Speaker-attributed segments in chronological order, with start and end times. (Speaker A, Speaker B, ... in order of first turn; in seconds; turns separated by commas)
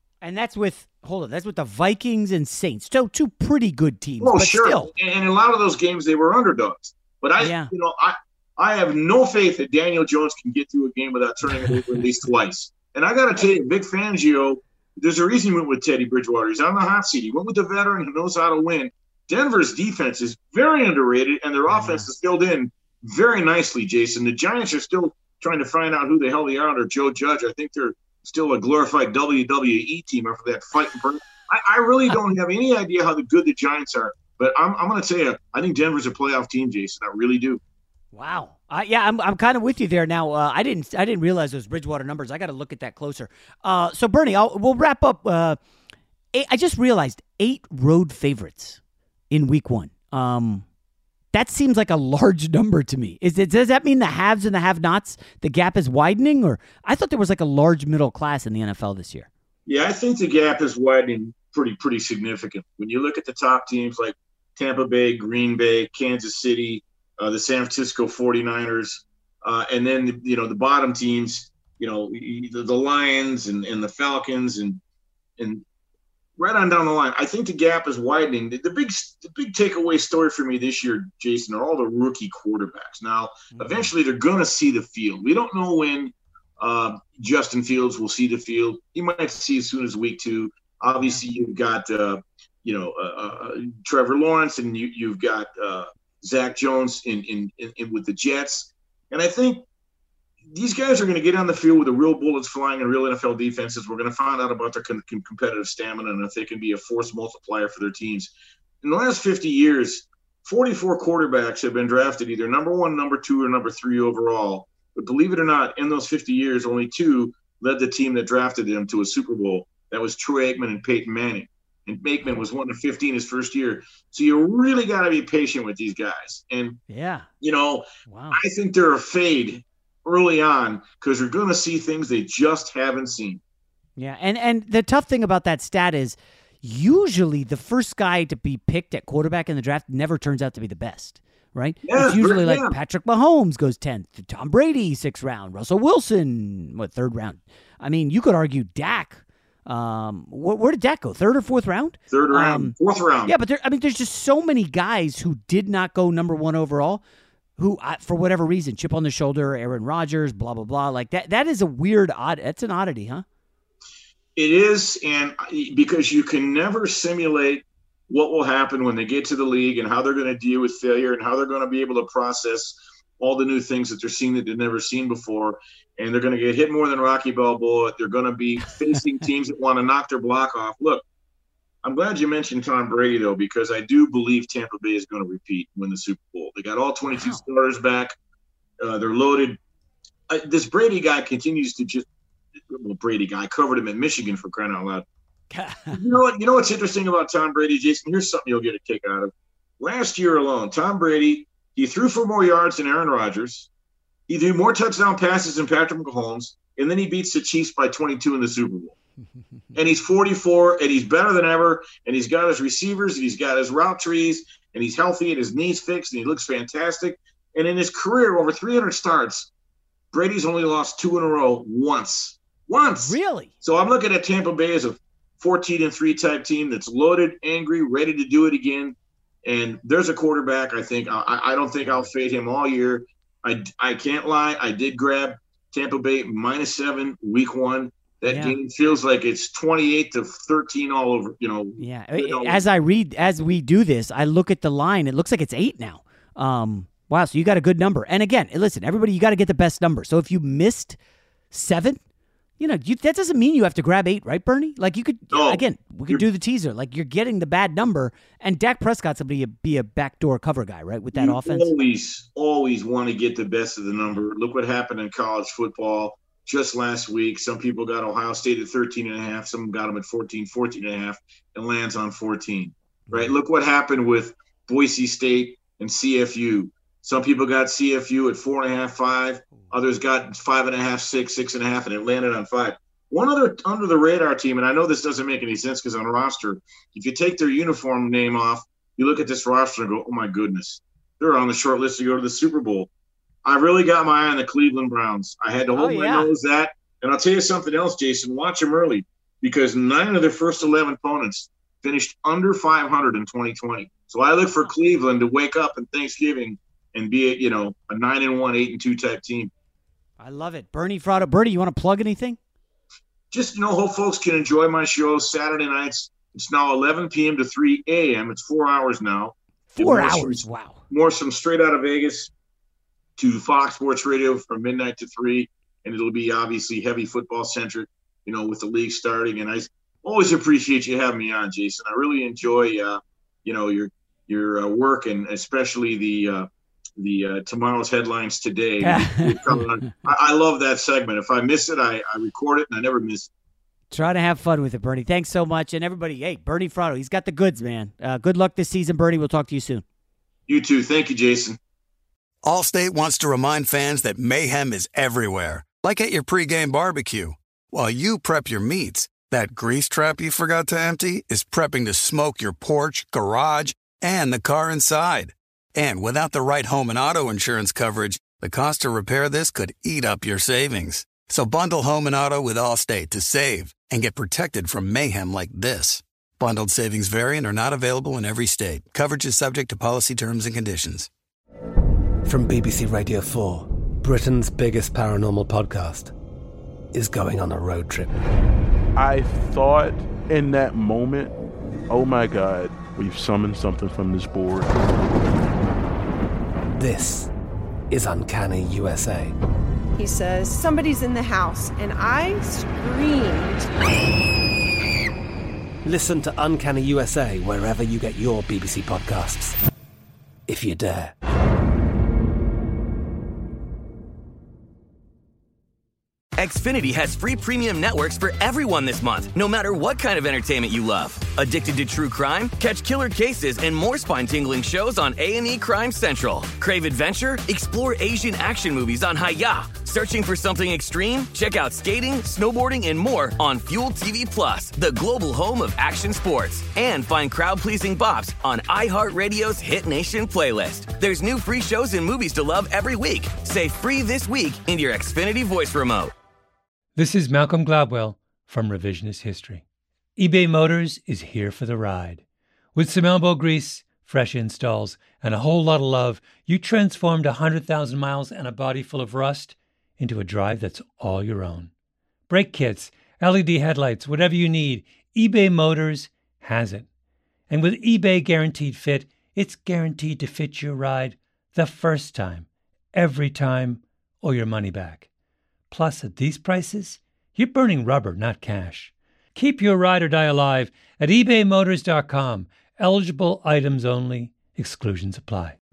Speaker A: 0.2-4.9, Speaker B: 4.2-37.6, Speaker A: 7.4-7.7, Speaker A: 21.7-22.1, Speaker A: 38.1-45.6, Speaker A: 46.3-48.8, Speaker A: 49.3-50.6, Speaker A: 51.3-59.3, Speaker B: 59.7-74.8, Speaker B: 75.4-75.6, Speaker B: 76.4-99.7, Speaker A: 83.5-83.9, Speaker B: 100.5-126.8, Speaker A: 126.9-127.3, Speaker B: 127.4-133.4, Speaker A: 128.1-128.4, Speaker A: 134.0-157.0, Speaker B: 141.8-142.8, Speaker B: 152.1-153.3, Speaker A: 157.6-163.2, Speaker B: 164.4-181.1, Speaker B: 181.8-188.1, Speaker A: 187.1-187.4, Speaker B: 188.8-189.6, Speaker B: 190.3-192.1, Speaker B: 192.7-195.1, Speaker A: 195.5-196.0, Speaker B: 195.9-203.7, Speaker B: 204.3-208.9, Speaker B: 209.8-219.5, Speaker B: 220.1-242.6, Speaker A: 223.0-223.5, Speaker A: 238.3-238.6, Speaker A: 241.8-251.0, Speaker A: 251.5-252.0, Speaker A: 252.6-261.7, Speaker B: 255.3-256.2, Speaker B: 261.1-292.9, Speaker B: 293.4-309.5, Speaker A: 295.7-296.3, Speaker A: 310.2-312.4, Speaker B: 313.3-322.3, Speaker A: 319.7-320.8, Speaker B: 323.2-343.3, Speaker A: 338.8-339.6, Speaker A: 343.9-349.8, Speaker B: 350.5-351.6, Speaker C: 352.4-381.1, Speaker D: 382.3-386.1, Speaker D: 386.9-388.2, Speaker E: 389.0-391.4, Speaker E: 391.9-394.7, Speaker D: 396.8-397.3, Speaker D: 397.9-399.3, Speaker F: 400.0-403.7, Speaker D: 405.9-409.6, Speaker D: 410.5-411.1, Speaker G: 416.4-446.1, Speaker H: 447.0-449.6, Speaker H: 450.2-452.2, Speaker H: 452.8-461.7, Speaker H: 462.3-466.9, Speaker H: 467.5-475.1, Speaker H: 475.7-485.6